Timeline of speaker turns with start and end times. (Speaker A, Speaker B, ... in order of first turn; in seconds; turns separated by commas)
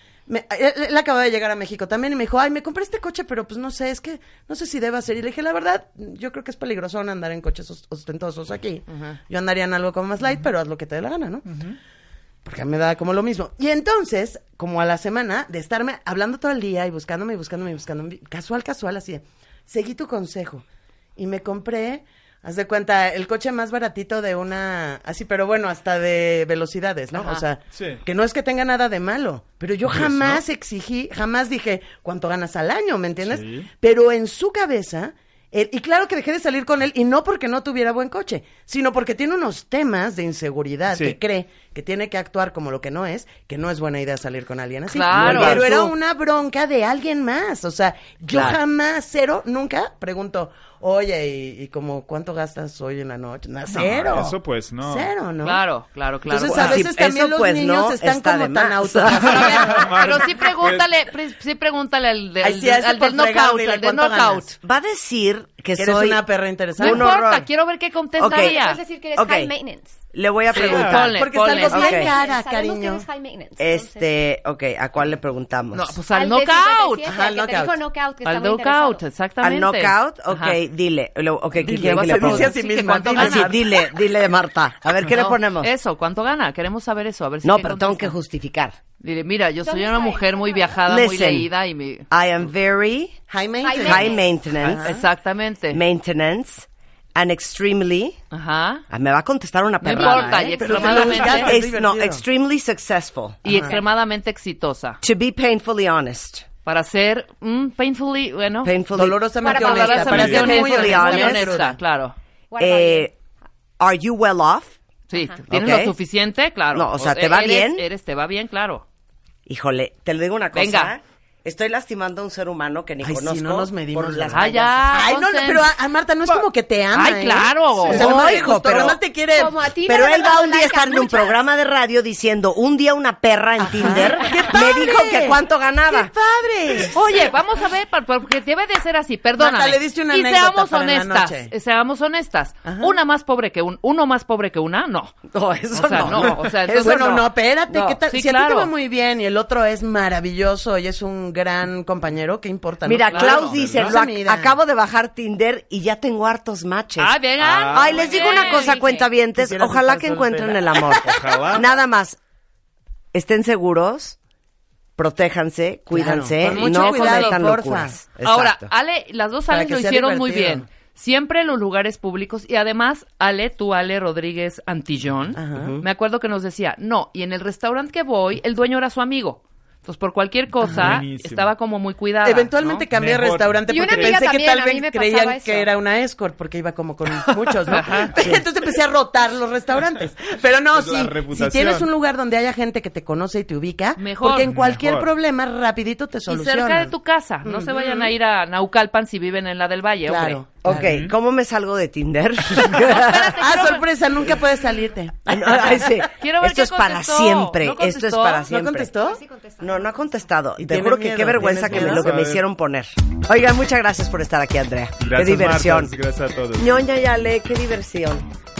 Speaker A: 0.3-11.6, Speaker A: 12.4-20.6, Speaker A: 21.2-55.6, Speaker B: 27.1-27.4, Speaker C: 27.7-28.0, Speaker C: 29.9-30.4, Speaker C: 33.2-33.7, Speaker C: 40.9-41.2, Speaker B: 44.9-45.6, Speaker C: 45.1-45.9, Speaker D: 48.3-48.6, Speaker C: 53.7-55.1, Speaker B: 55.4-56.9, Speaker A: 56.3-60.1, Speaker D: 56.4-59.6, Speaker B: 59.2-64.5, Speaker C: 59.3-60.9, Speaker A: 62.4-64.5, Speaker D: 64.6-66.2, Speaker A: 65.8-67.1, Speaker B: 66.8-68.8, Speaker D: 66.8-67.5, Speaker D: 68.2-68.6, Speaker E: 68.2-70.0, Speaker D: 69.2-69.5, Speaker D: 70.1-72.1, Speaker B: 70.5-71.9, Speaker C: 70.7-71.1, Speaker A: 71.1-73.1, Speaker E: 71.5-74.1, Speaker D: 73.6-76.0, Speaker B: 75.7-77.1, Speaker E: 76.1-79.0, Speaker A: 77.1-77.8, Speaker B: 78.2-80.6, Speaker D: 79.4-82.6, Speaker A: 81.6-83.6, Speaker B: 81.7-83.7, Speaker D: 83.1-85.7, Speaker B: 85.0-88.1, Speaker D: 87.4-88.8, Speaker B: 89.0-92.1, Speaker E: 89.7-90.8, Speaker D: 90.8-91.5, Speaker D: 92.1-93.2, Speaker A: 93.3-95.0, Speaker E: 93.6-94.3, Speaker D: 93.8-95.0, Speaker B: 94.6-95.8, Speaker D: 95.7-98.2, Speaker B: 98.3-98.8, Speaker D: 98.9-103.5, Speaker B: 99.8-101.5, Speaker E: 100.0-100.5, Speaker A: 100.6-102.2, Speaker B: 103.5-105.0, Speaker D: 105.0-106.5, Speaker B: 106.7-108.7, Speaker D: 108.6-109.6, Speaker A: 108.9-111.8, Speaker E: 109.4-110.9, Speaker B: 109.4-112.2, Speaker D: 110.1-111.5, Speaker C: 110.1-110.6, Speaker E: 112.5-113.1, Speaker D: 112.6-113.1, Speaker D: 113.8-114.8, Speaker B: 115.1-118.8, Speaker D: 115.5-116.0, Speaker D: 116.7-117.9, Speaker D: 119.5-125.1, Speaker B: 120.5-120.9, Speaker A: 123.0-129.6, Speaker B: 124.3-125.7, Speaker B: 126.9-128.1, Speaker D: 127.9-129.0, Speaker E: 128.1-131.4, Speaker D: 129.9-136.1, Speaker A: 133.6-137.3, Speaker B: 136.9-148.7, Speaker A: 139.4-141.5, Speaker A: 142.7-143.0, Speaker D: 145.3-147.3, Speaker C: 145.8-146.4, Speaker A: 146.8-154.6, Speaker D: 152.8-162.2, Speaker B: 153.1-153.6, Speaker C: 153.5-154.0, Speaker B: 157.0-159.1, Speaker C: 157.4-158.2, Speaker A: 159.3-161.0, Speaker C: 160.9-161.7, Speaker D: 163.1-164.2, Speaker D: 165.0-168.7, Speaker A: 165.9-167.9, Speaker B: 166.4-167.4, Speaker B: 168.2-182.5, Speaker A: 169.5-170.7, Speaker A: 175.4-175.8, Speaker D: 175.5-175.9, Speaker A: 180.6-181.0, Speaker C: 180.7-181.5, Speaker A: 182.2-196.9, Speaker C: 182.6-184.2, Speaker E: 183.7-185.7, Speaker C: 187.1-188.4, Speaker B: 187.7-188.1, Speaker C: 190.7-191.9, Speaker B: 194.0-194.5, Speaker C: 194.5-195.1, Speaker B: 196.3-200.4, Speaker A: 197.4-198.1, Speaker A: 200.1-200.9, Speaker D: 200.6-203.5, Speaker C: 200.7-201.1, Speaker B: 202.7-203.9, Speaker A: 203.4-205.8, Speaker D: 205.3-215.9, Speaker B: 206.2-208.5, Speaker A: 208.5-209.2, Speaker A: 210.6-212.1, Speaker C: 211.4-212.4, Speaker C: 215.0-216.7, Speaker D: 216.6-218.3